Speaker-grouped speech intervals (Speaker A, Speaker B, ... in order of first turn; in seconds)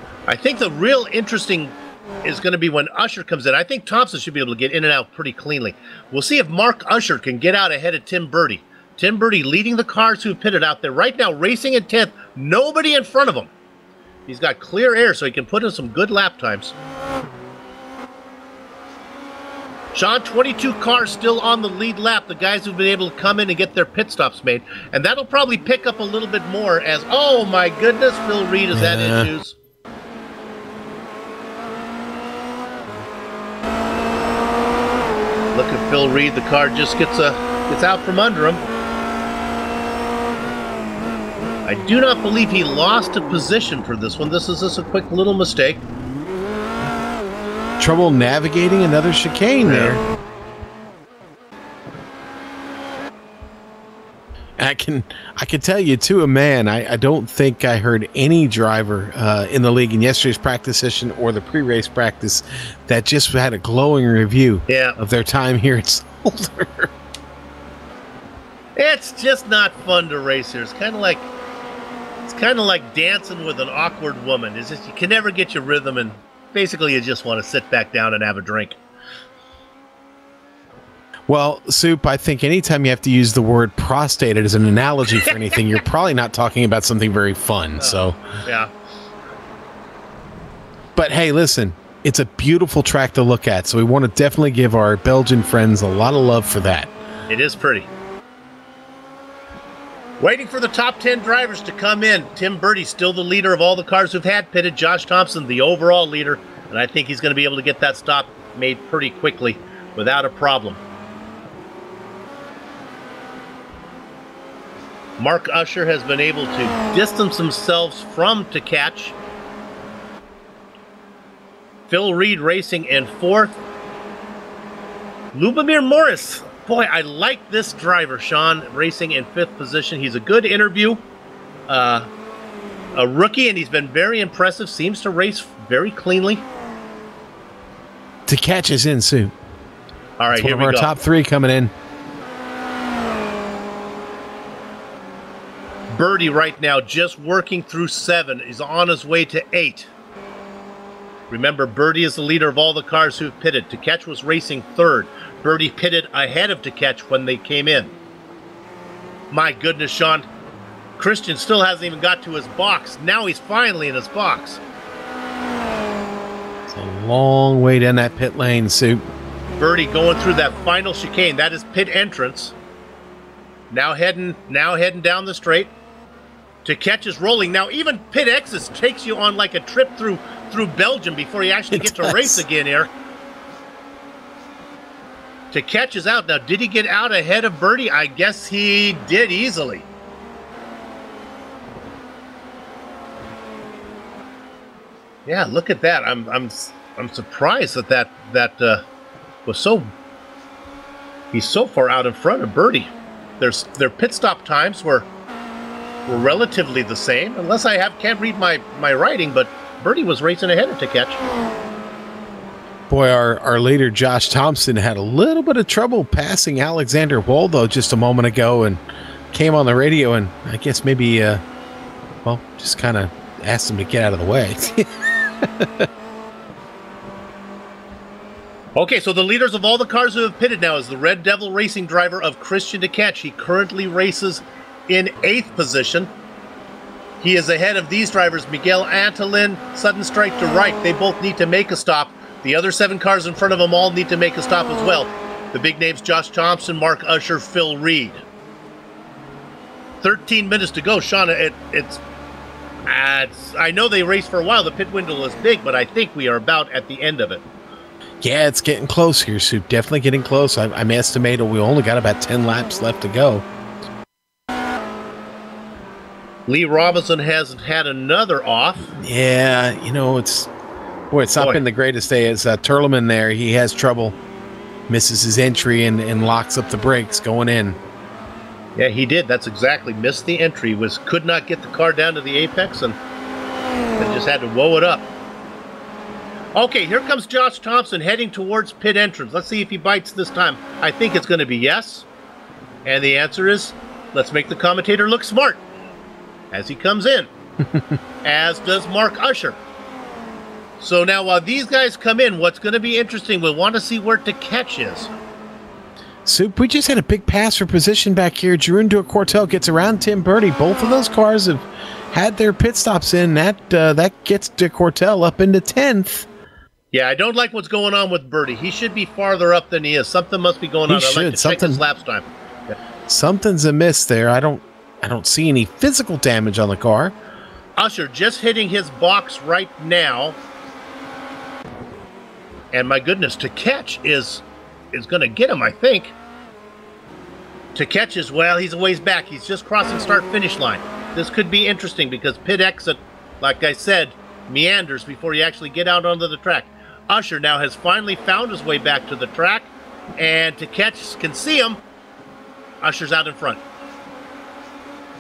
Speaker A: 0.3-13.5, 14.3-16.7, 19.9-29.6, 35.5-38.6, 41.6-45.8, 49.6-50.0, 64.7-65.0, 68.8-71.3, 72.2-78.8, 87.8-88.7, 97.3-97.9, 100.2-110.8, 115.2-119.2, 121.9-123.6, 125.3-131.0, 131.7-132.1, 132.9-136.4, 140.2-140.9, 145.9-149.9, 151.3-157.9, 159.3-160.3, 161.0-164.6, 169.6-172.5, 173.7-175.7, 176.6-182.9, 185.5-189.8, 195.2-198.8, 199.4-199.9, 201.3-205.1, 206.1-211.2, 228.8-236.1, 237.2-248.2, 250.0-252.0, 252.8-257.4, 266.5-268.9, 278.8-283.0, 284.0-285.1, 286.5-292.1, 292.8-295.6, 296.5-297.3, 298.2-299.6, 300.8-305.1, 316.9-322.8, 327.8-330.4, 332.7-336.1, 337.7-351.8, 352.8-353.6
Speaker B: 28.7-29.3, 47.8-50.0, 54.6-66.9, 81.3-88.2, 91.0-96.9, 138.3-139.3, 140.3-141.7, 166.7-169.0, 181.7-182.4, 212.9-218.8, 219.3-221.4, 222.2-225.9, 258.2-263.4, 268.9-270.5, 271.1-274.1, 274.9-277.8, 306.2-316.3, 320.9-321.8, 323.1-327.1